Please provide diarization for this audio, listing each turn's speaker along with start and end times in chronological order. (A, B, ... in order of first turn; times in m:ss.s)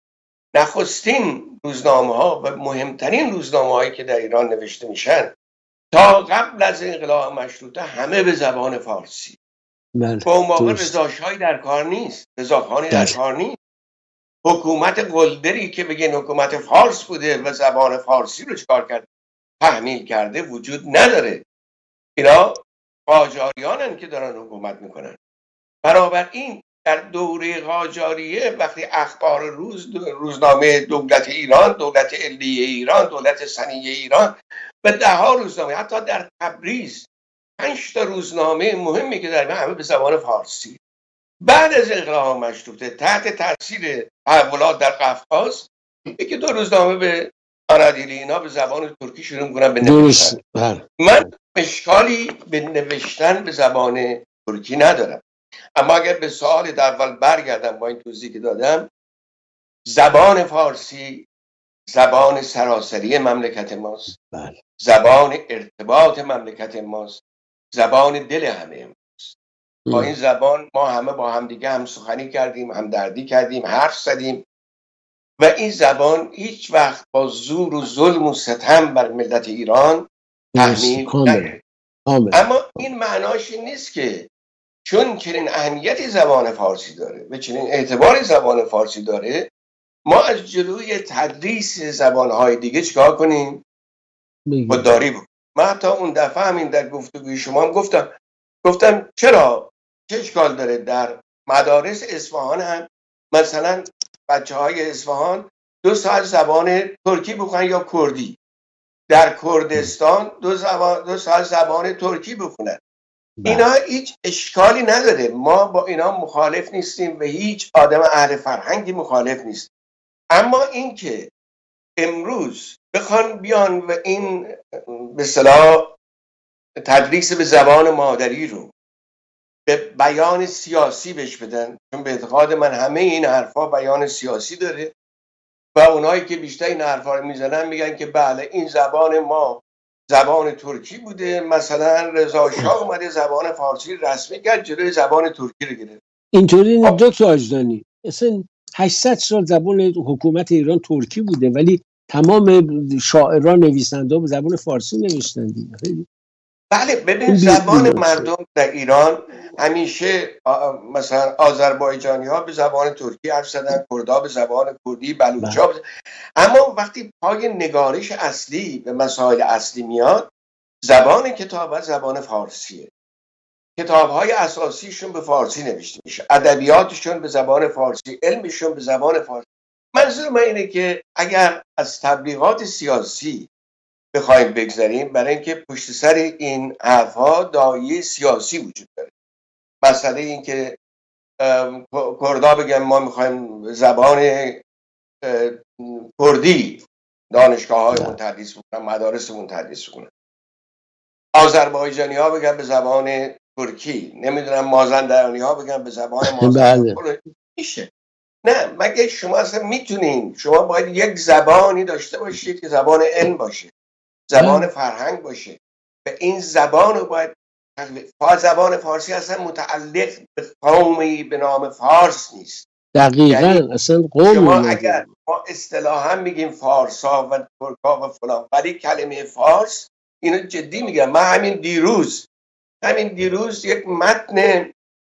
0:00.5-0:05.3 A
0:05.9-0:09.4 A
0:10.0-0:11.0 B
0:10.2-0:13.6 A
0:12.9-0:13.2 B
0:14.4-0:19.1 A
0:19.6-0:21.4 A
0:22.2-0:25.2 A
0:25.8-0:40.8 A
0:41.4-0:50.4 A
0:49.8-0:50.9 B
0:51.0-0:55.2 A
0:55.8-0:58.9 A
0:59.9-1:01.3 A
1:01.9-1:04.2 A
1:04.2-1:04.6 B
1:04.8-1:07.2 A
1:07.7-1:09.4 A
1:09.9-1:10.1 B
1:09.9-1:14.4 A
1:15.4-1:21.6 A
1:20.6-1:21.6 B
1:22.1-1:22.8 B
1:22.3-1:24.3 A
1:24.8-1:29.5 A
1:30.1-1:33.6 A
1:34.5-1:35.0 B
1:34.7-1:38.1 A
1:38.6-1:48.4 A
1:49.1-1:52.8 A
1:53.4-1:53.6 B
1:53.4-1:59.7 A
2:00.3-2:01.3 A
2:02.0-2:05.9 A
2:06.8-2:08.7 A
2:09.7-2:14.9 A
2:15.8-2:26.0 A
2:26.3-2:36.1 B
2:36.7-2:45.8 A
2:37.3-2:38.3 B
2:46.4-2:50.3 A
2:50.8-2:52.9 A
2:53.8-3:03.5 A
3:04.1-3:09.1 A
3:09.8-3:10.8 A
3:11.4-3:14.6 A
3:15.2-3:20.1 A
3:17.9-3:18.2 B
3:21.3-3:27.9 A
3:26.2-3:27.0 B
3:28.4-3:33.7 A
3:34.3-3:42.7 A
3:34.4-3:34.7 B
3:43.0-3:45.0 B
3:43.3-3:43.6 A
3:44.2-3:52.3 A
3:52.8-3:54.7 A